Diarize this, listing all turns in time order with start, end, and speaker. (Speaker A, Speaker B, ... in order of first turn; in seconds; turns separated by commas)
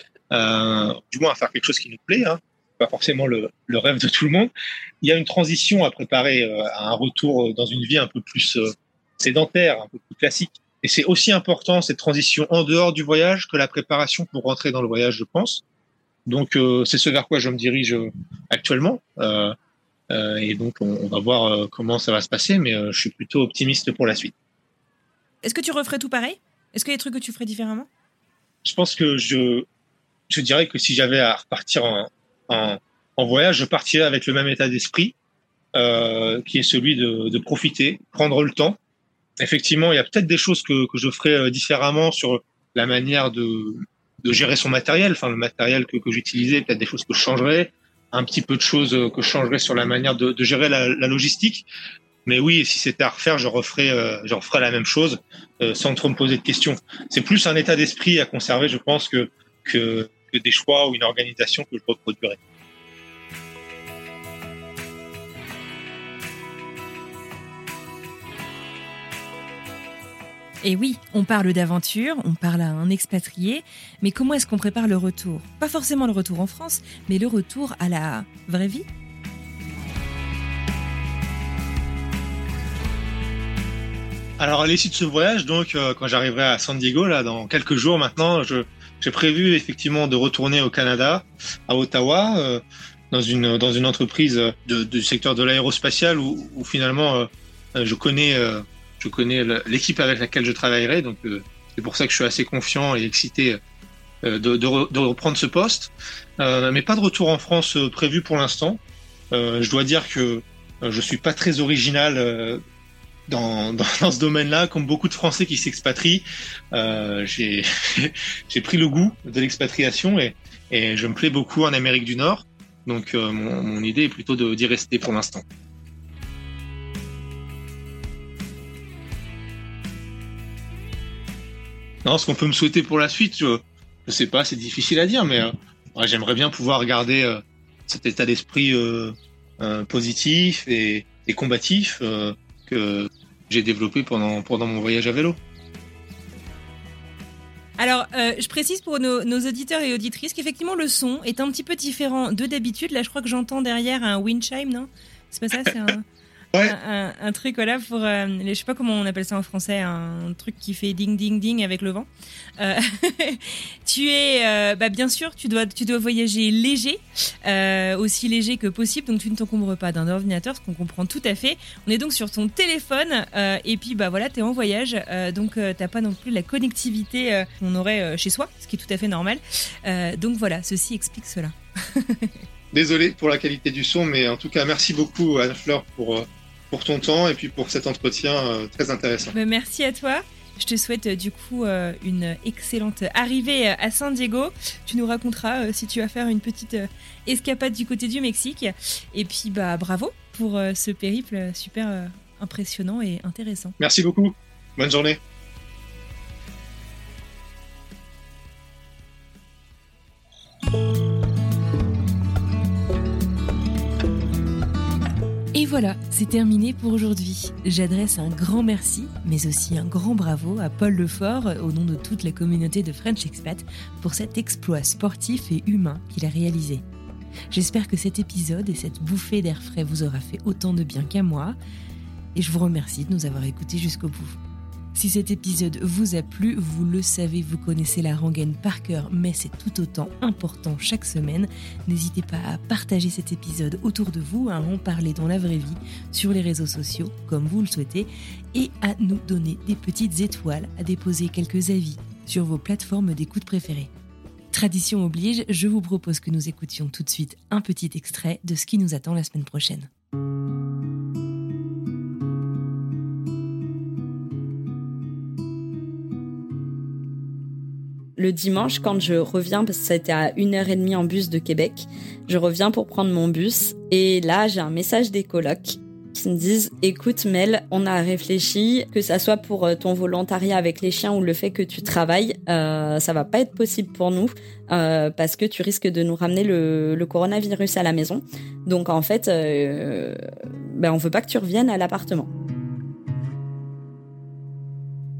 Speaker A: 0.3-4.5, Speaker A: 5.0-15.6, Speaker A: 16.2-19.5, Speaker A: 20.1-24.3, Speaker B: 25.4-27.9, Speaker A: 28.6-29.6, Speaker A: 30.3-35.1, Speaker A: 35.7-38.8, Speaker A: 39.4-51.6, Speaker A: 52.2-62.4, Speaker B: 70.6-78.8, Speaker A: 84.4-103.6, Speaker A: 104.2-108.8, Speaker A: 109.3-112.6, Speaker A: 113.3-125.4, Speaker A: 132.0-145.4, Speaker B: 147.8-156.0, Speaker B: 156.6-162.1, Speaker B: 162.6-182.3, Speaker A: 182.7-189.3, Speaker B: 189.3-203.8, Speaker A: 203.8-205.2, Speaker B: 215.5-226.8, Speaker B: 227.5-231.6, Speaker B: 232.3-234.4, Speaker B: 234.9-253.9, Speaker B: 254.5-259.9, Speaker C: 268.2-290.2, Speaker C: 290.7-292.3